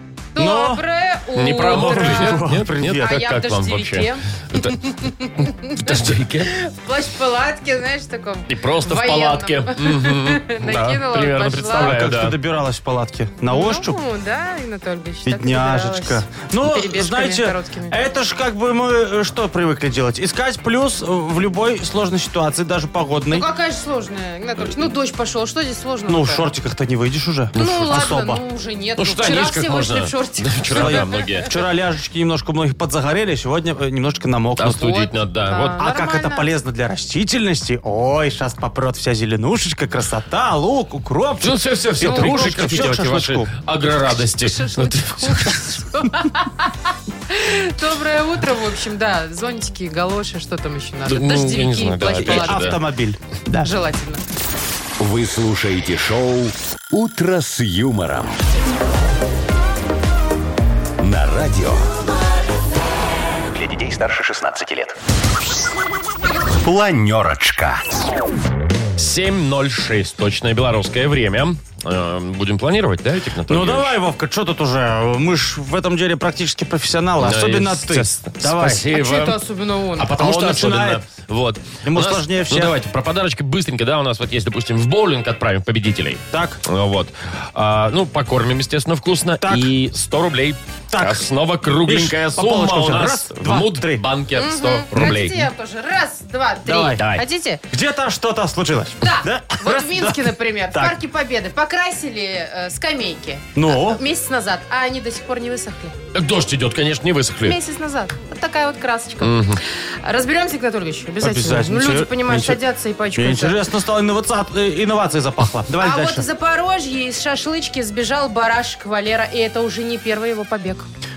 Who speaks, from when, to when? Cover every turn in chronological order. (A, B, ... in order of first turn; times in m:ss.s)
0:00.4-0:12.0 A
0:00.4-0:00.8 B
0:01.4-0:04.8 C
0:01.6-0:03.3 B
0:05.4-0:06.5 C
0:08.5-0:12.4 C
0:11.7-0:14.0 B
0:13.5-0:18.0 A
0:15.3-0:23.5 B
0:23.3-0:26.5 A
0:26.1-0:28.4 B
0:27.6-0:28.0 C
0:27.6-0:31.4 A
0:29.0-0:31.5 C
0:30.7-0:35.2 B
0:34.6-0:35.8 C
0:35.5-0:36.5 A
0:35.8-0:43.5 B
0:41.4-0:45.8 C
0:42.0-0:42.9 A
0:44.4-0:52.7 A
0:51.1-0:52.8 C
0:52.1-0:53.7 B
0:53.6-0:54.2 A
0:55.0-0:58.4 D
1:01.0-1:01.9 D
1:03.5-1:05.0 D
1:06.6-1:07.8 D
1:09.0-1:14.0 C
1:13.5-1:18.9 B
1:17.2-1:19.4 C
1:18.9-1:20.1 A
1:20.0-1:35.5 C
1:20.1-1:21.0 B
1:21.8-1:22.8 B
1:26.3-1:26.6 B
1:29.4-1:29.7 B
1:30.9-1:31.3 B
1:31.8-1:34.0 B
1:34.4-1:37.6 A
1:35.0-1:35.2 B
1:36.6-1:37.0 B
1:37.0-1:37.2 C
1:37.7-1:41.0 B
1:39.0-1:46.0 A
1:43.6-1:44.0 B
1:46.1-1:47.6 C
1:47.4-1:53.6 A
1:49.2-1:49.6 C
1:51.2-1:56.3 B
1:55.8-2:00.9 A